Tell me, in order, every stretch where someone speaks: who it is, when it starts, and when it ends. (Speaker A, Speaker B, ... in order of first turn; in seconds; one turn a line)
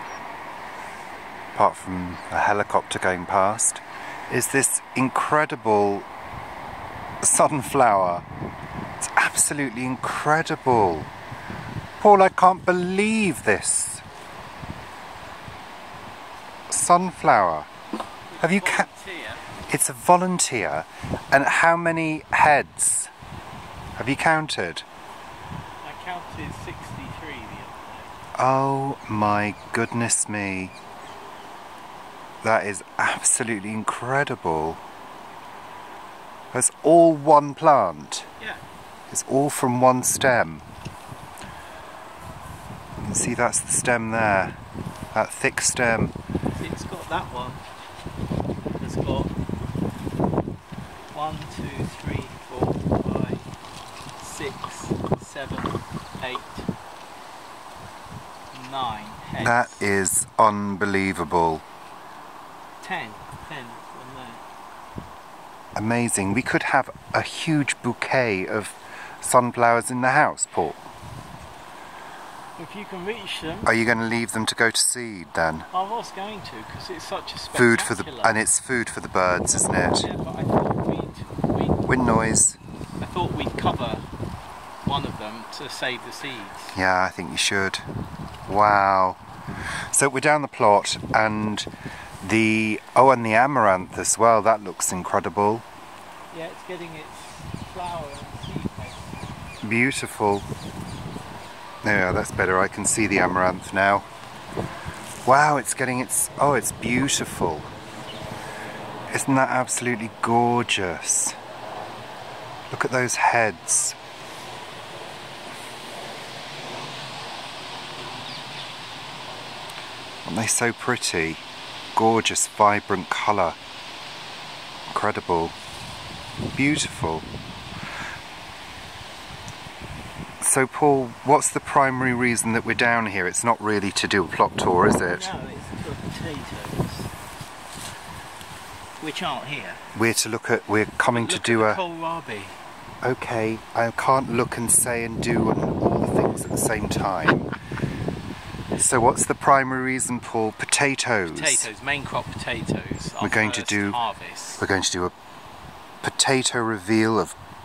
Speaker A: 1.6-6.1
Speaker A: 7.2-8.2
Speaker A: 9.0-11.1
Speaker A: 12.0-14.0
Speaker A: 16.7-17.7
Speaker B: 18.3-19.4
Speaker A: 18.4-18.9
Speaker A: 19.7-23.1
Speaker A: 24.0-24.9
Speaker B: 25.8-28.1
Speaker A: 28.4-30.7
Speaker A: 32.4-34.8
Speaker A: 36.5-38.3
Speaker A: 39.1-40.6
Speaker A: 43.0-44.5
Speaker A: 45.1-46.1
Speaker B: 46.6-47.6
Speaker B: 48.8-49.3
Speaker B: 51.1-53.5
Speaker B: 54.2-56.7
Speaker B: 58.5-59.9
Speaker A: 59.4-61.6
Speaker B: 62.8-64.4
Speaker A: 65.8-70.8
Speaker B: 72.6-73.7
Speaker A: 73.7-75.7
Speaker B: 75.7-78.4
Speaker A: 77.5-80.1
Speaker B: 79.4-81.9
Speaker A: 81.9-82.6
Speaker B: 83.0-84.0
Speaker B: 84.8-86.8
Speaker A: 86.7-87.8
Speaker A: 88.5-89.2
Speaker A: 89.9-91.7
Speaker A: 92.2-95.7
Speaker B: 96.3-99.4
Speaker A: 99.6-100.5
Speaker A: 101.8-104.1
Speaker A: 105.2-107.7
Speaker A: 109.1-111.4
Speaker A: 112.7-114.0
Speaker A: 120.2-121.4
Speaker A: 122.0-123.6
Speaker A: 124.9-125.5
Speaker A: 126.5-127.3
Speaker A: 130.4-135.3
Speaker B: 135.0-137.1
Speaker B: 139.0-139.8
Speaker A: 139.9-141.8
Speaker B: 141.1-142.6
Speaker A: 143.0-147.5
Speaker A: 148.7-151.7
Speaker B: 151.3-154.7
Speaker A: 153.2-154.0
Speaker A: 154.6-155.1
Speaker A: 156.0-157.3